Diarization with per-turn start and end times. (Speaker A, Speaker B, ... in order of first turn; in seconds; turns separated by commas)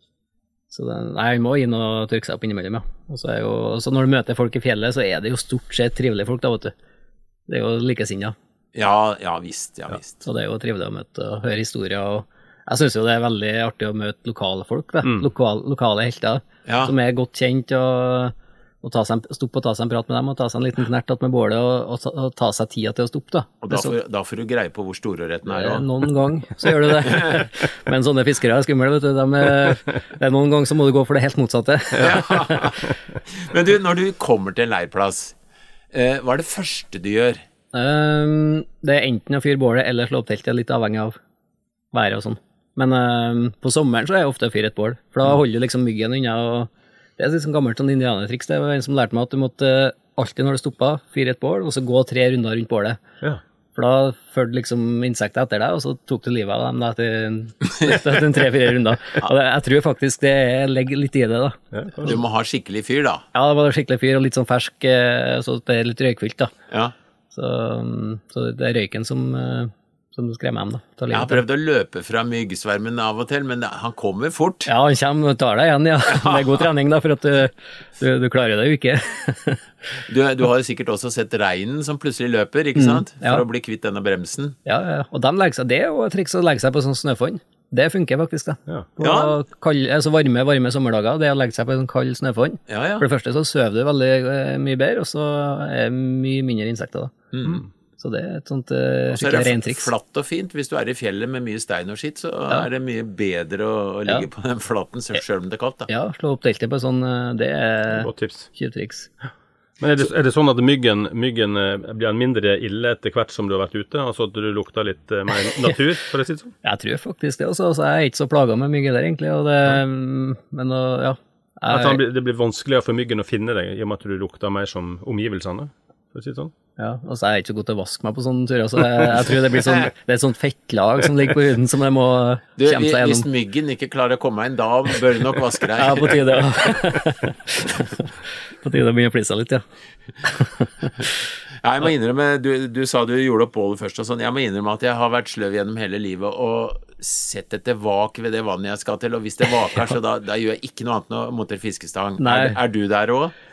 Speaker A: 0.7-6.7, Speaker A: 7.5-8.3, Speaker B: 8.7-10.2, Speaker A: 10.2-23.9, Speaker B: 16.6-16.9, Speaker B: 23.6-25.9, Speaker A: 25.5-32.7, Speaker B: 27.0-27.4, Speaker B: 32.0-35.4, Speaker B: 35.9-37.4, Speaker A: 37.7-41.2, Speaker A: 41.9-53.0, Speaker A: 53.7-62.2, Speaker C: 61.7-62.1, Speaker B: 62.0-63.2, Speaker A: 63.3-66.5, Speaker A: 67.3-71.4, Speaker B: 71.1-74.7, Speaker A: 74.7-79.6, Speaker B: 80.0-84.6, Speaker A: 82.8-83.4, Speaker A: 84.7-97.1, Speaker B: 89.0-89.3, Speaker B: 92.7-93.0, Speaker B: 97.3-97.6, Speaker A: 98.0-99.9, Speaker B: 99.1-105.9, Speaker A: 105.9-109.1, Speaker C: 107.9-108.5, Speaker C: 109.8-116.5, Speaker A: 116.6-122.0, Speaker C: 121.7-126.5, Speaker A: 126.8-133.3, Speaker B: 132.6-136.5, Speaker A: 135.8-139.6, Speaker A: 140.2-141.2, Speaker B: 141.6-153.3, Speaker A: 152.2-152.6